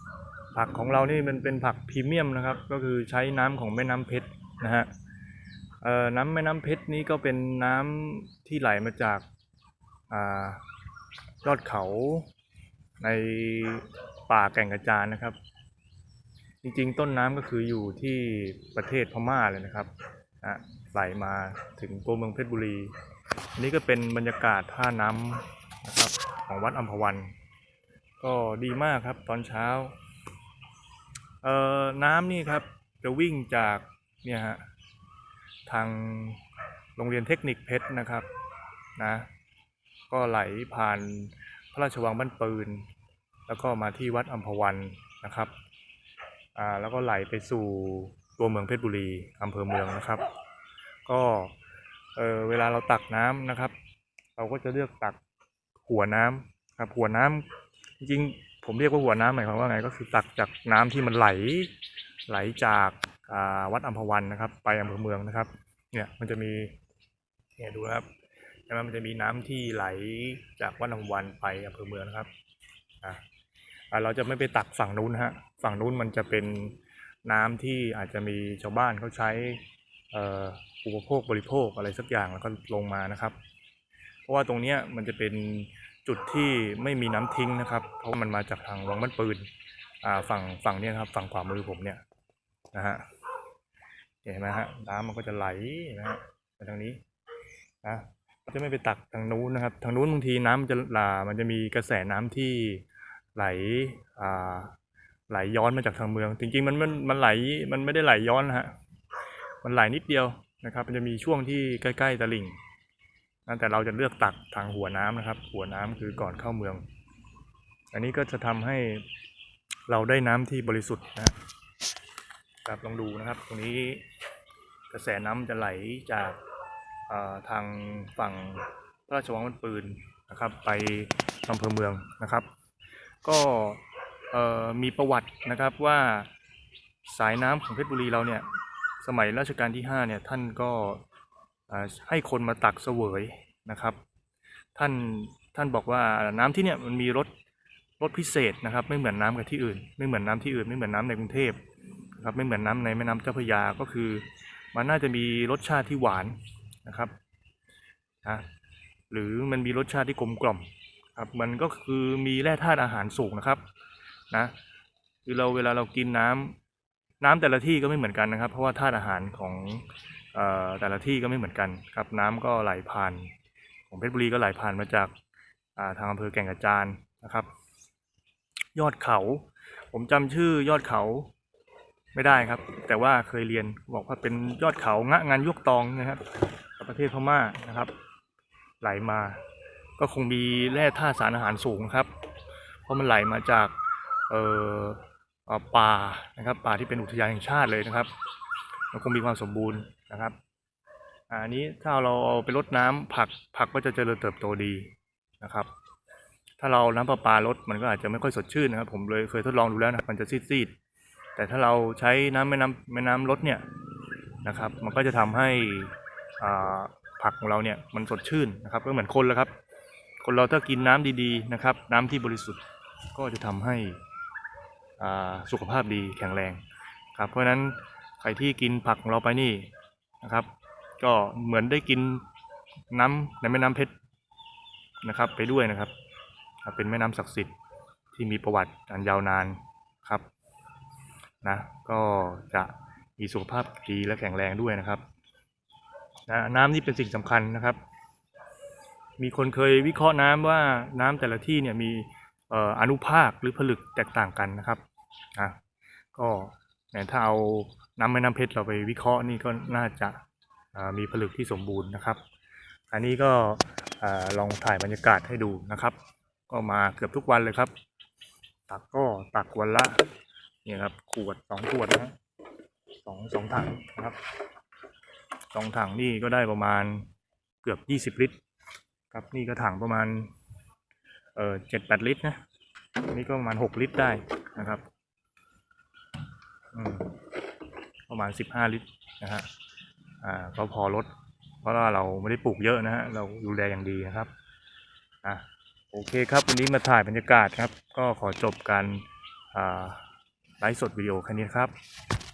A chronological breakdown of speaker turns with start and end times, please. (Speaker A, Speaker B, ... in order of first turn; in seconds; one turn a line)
Speaker A: 0.5-4.9
Speaker A: 5.8-9.2
Speaker A: 10.1-10.6
Speaker A: 11.4-12.3
Speaker A: 13.0-15.4
Speaker A: 16.6-19.9
Speaker A: 20.4-22.9
Speaker A: 23.5-27.3
Speaker A: 28.2-29.9
Speaker A: 31.4-34.6
Speaker A: 35.6-36.4
Speaker A: 37.0-38.3
Speaker A: 39.0-39.3
Speaker A: 40.1-42.8
Speaker A: 43.5-45.5
Speaker A: 46.5-50.2
Speaker A: 51.0-51.5
Speaker A: 52.1-53.7
Speaker A: 54.4-55.2
Speaker A: 55.8-57.5
Speaker A: 58.0-61.7
Speaker A: 62.3-66.7
Speaker A: 67.6-68.1
Speaker A: 68.7-72.3
Speaker A: 73.9-83.3
Speaker A: 84.2-89.5
Speaker A: 90.0-92.0
Speaker A: 92.7-93.0
Speaker A: 94.2-97.0
Speaker A: 97.8-102.8
Speaker A: 103.3-104.7
Speaker A: 105.3-108.7
Speaker A: 109.6-112.6
Speaker A: 113.5-116.8
Speaker A: 117.9-119.0
Speaker A: 119.9-121.3
Speaker A: 122.6-124.0
Speaker A: 124.9-126.4
Speaker A: 127.1-132.5
Speaker A: 133.2-133.8
Speaker A: 134.3-136.3
Speaker A: 137.0-138.4
Speaker A: 139.0-141.0
Speaker A: 141.7-144.0
Speaker A: 144.7-147.3
Speaker A: 148.0-151.6
Speaker A: 152.2-157.1
Speaker A: 159.1-163.6
Speaker A: 165.2-166.6
Speaker A: 167.2-173.3
Speaker A: 173.9-175.1
Speaker A: 175.8-177.5
Speaker A: 178.7-181.3
Speaker A: 182.1-186.2
Speaker A: 186.8-187.9
Speaker A: 188.8-189.4
Speaker A: 190.0-192.1
Speaker A: 192.8-193.7
Speaker A: 194.3-198.1
Speaker A: 198.9-200.3
Speaker A: 201.3-205.7
Speaker A: 206.6-210.7
Speaker A: 211.3-213.6
Speaker A: 214.4-219.5
Speaker A: 220.2-224.0
Speaker A: 225.0-226.6
Speaker A: 227.1-229.7
Speaker A: 230.2-232.2
Speaker A: 232.9-233.9
Speaker A: 235.0-235.9
Speaker A: 236.6-237.5
Speaker A: 238.1-240.2
Speaker A: 241.4-245.0
Speaker A: 246.3-247.8
Speaker A: 249.2-254.8
Speaker A: 256.1-260.2
Speaker A: 260.7-262.2
Speaker A: 262.9-266.0
Speaker A: 266.5-267.7
Speaker A: 268.7-270.0
Speaker A: 270.6-272.1
Speaker A: 273.0-274.2
Speaker A: 275.5-277.1
Speaker A: 277.6-278.4
Speaker A: 279.1-280.3
Speaker A: 281.4-282.4
Speaker A: 283.1-284.8
Speaker A: 286.7-287.1
Speaker A: 288.1-289.5
Speaker A: 290.2-291.1
Speaker A: 291.6-294.3
Speaker A: 295.2-300.1
Speaker A: 300.6-301.7